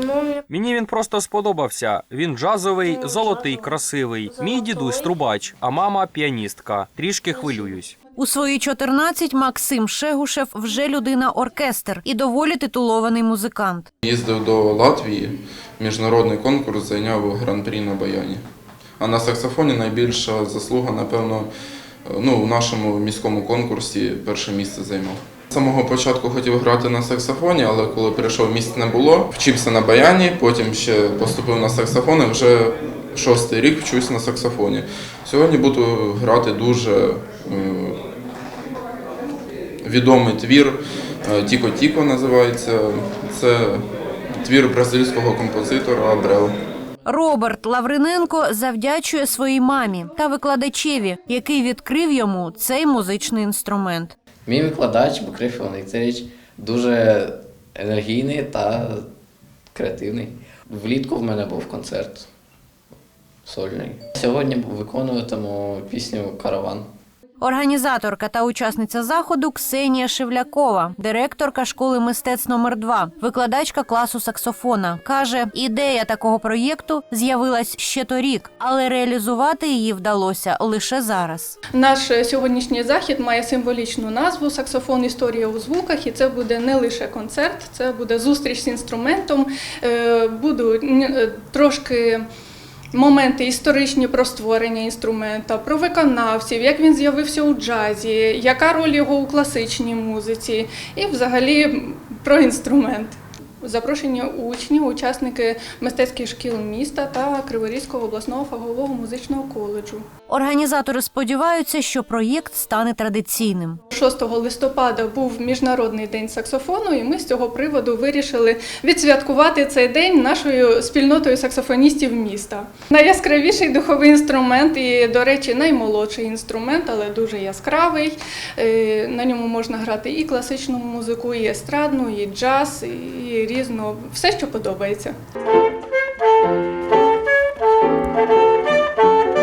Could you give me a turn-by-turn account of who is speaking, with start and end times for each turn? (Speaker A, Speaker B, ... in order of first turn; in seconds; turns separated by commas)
Speaker A: 0.5-8.0, Speaker B: 8.2-13.9, Speaker C: 14.0-18.4, Speaker C: 19.0-21.5, Speaker C: 22.1-38.0, Speaker C: 39.8-43.8, Speaker C: 44.4-46.5, Speaker B: 47.0-54.1, Speaker D: 54.5-59.1, Speaker D: 59.7-62.3, Speaker D: 63.5-66.9, Speaker B: 67.4-81.6, Speaker E: 81.7-92.2, Speaker E: 92.9-110.1, Speaker B: 110.3-113.8, Speaker E: 113.9-135.2